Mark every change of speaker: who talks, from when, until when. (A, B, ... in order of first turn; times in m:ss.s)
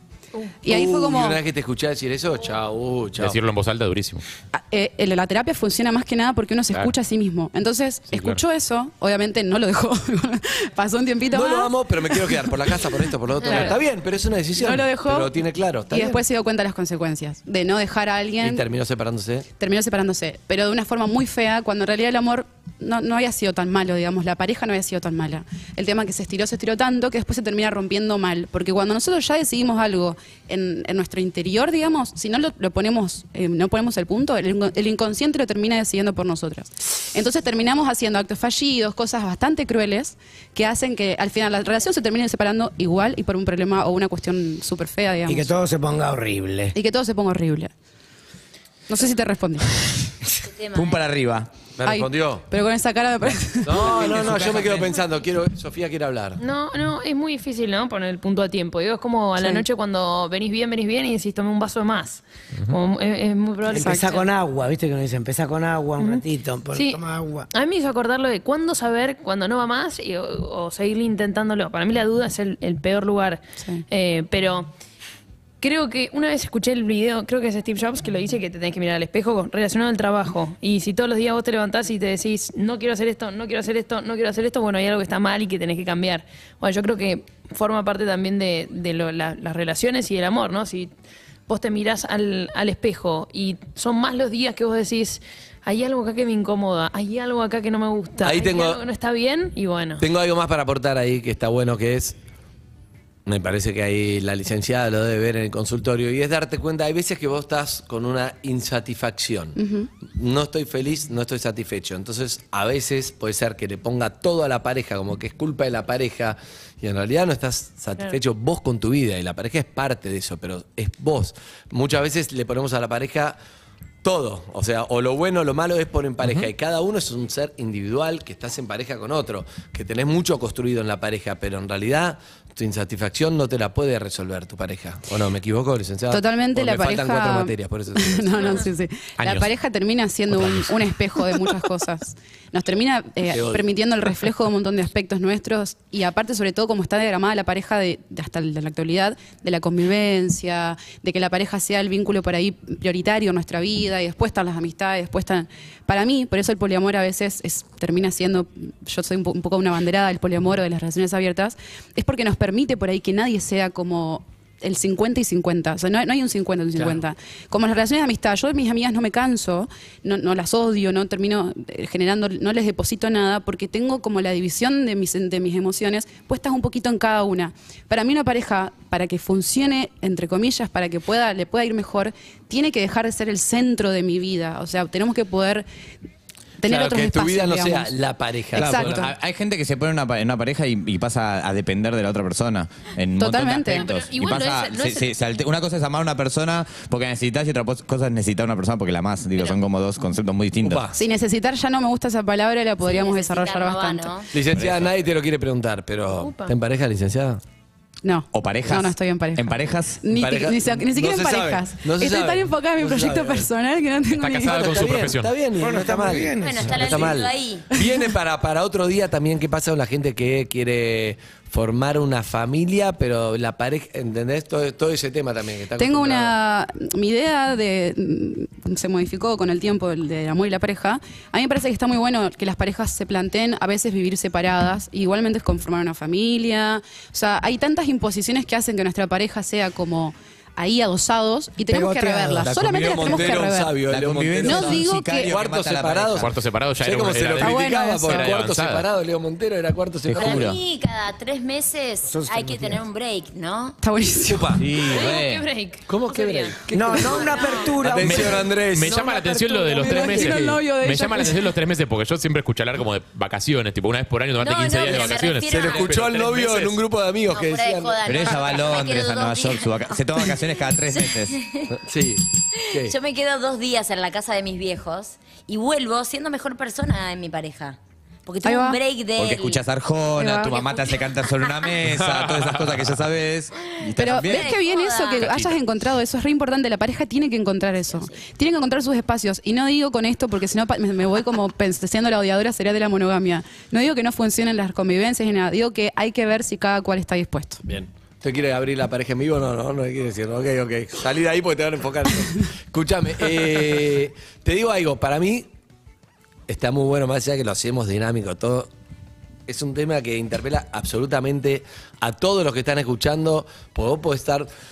0:00.6-0:01.4 A
0:00.7-0:03.4 B
0:03.2-0:04.2 C
0:04.5-0:12.5 A
0:08.1-0:08.4 C
0:11.3-0:16.2 B
0:13.4-0:13.7 A
0:13.5-0:13.7 D
0:14.6-0:15.3 A
0:15.9-0:18.6 A
0:18.4-0:19.5 B
0:19.6-0:45.5 A
0:45.3-0:46.7 E
0:46.7-0:47.7 A
0:48.9-0:49.8 A
0:50.4-0:51.0 F
0:50.7-0:51.5 G
0:51.8-0:52.4 B
0:51.8-0:53.9 A
0:53.6-0:56.4 B
0:53.7-0:54.9 G
0:56.4-1:04.2 D
1:03.7-1:07.5 E
1:03.7-1:04.1 A
1:06.0-1:14.7 D
1:15.6-1:30.9 D
1:31.5-1:40.0 D
1:38.2-1:38.8 B
1:40.0-1:42.2 B
1:43.2-2:03.4 B
1:49.6-1:49.9 A
2:04.0-2:18.6 B
2:16.1-3:05.6 A
2:19.2-2:19.5 C
2:20.3-2:20.8 C
2:23.3-2:23.7 B
3:06.6-3:07.9 A
3:06.6-3:09.1 B
3:08.5-3:09.1 A
3:08.6-3:20.8 G
3:13.2-3:13.9 A
3:13.7-3:15.1 D
3:20.6-3:21.0 B
3:20.9-3:24.1 A
3:22.8-3:24.3 F
3:24.3-3:27.4 B
3:26.1-3:26.5 D
3:28.0-3:34.6 A
3:28.3-3:30.0 G
3:30.1-3:33.5 B
3:34.1-3:35.3 C
3:34.3-3:46.3 B
3:35.6-3:37.2 E
3:36.3-3:37.7 F
3:45.8-4:03.7 A
4:01.7-4:02.5 E
4:02.4-4:06.3 G
4:02.9-4:10.6 B
4:04.4-4:05.4 A
4:06.1-4:08.8 C
4:07.4-4:08.4 A
4:10.0-4:10.6 G
4:10.1-4:13.8 F
4:12.1-4:12.8 E
4:13.8-4:14.6 A
4:14.2-4:14.7 B
4:14.6-4:15.4 G
4:14.8-4:16.7 D
4:15.9-4:20.6 B
4:16.7-4:18.6 E
4:17.0-4:17.6 F
4:17.2-4:17.7 D
4:18.0-4:26.8 C
4:19.6-4:21.4 A
4:24.4-4:26.0 F
4:24.8-4:28.0 B
4:27.3-4:31.7 F
4:28.0-4:31.3 G
4:31.7-4:32.9 B
4:32.5-4:39.6 F
4:38.4-4:38.8 A
4:39.2-4:44.5 G
4:40.2-4:40.6 A
4:40.4-4:41.7 F
4:41.8-4:42.9 C
4:43.7-4:45.4 F
4:44.0-4:57.6 A
4:45.2-4:45.6 C
4:47.8-4:48.2 F
4:57.6-5:05.5 B
5:06.5-5:08.7 B
5:09.5-5:14.5 B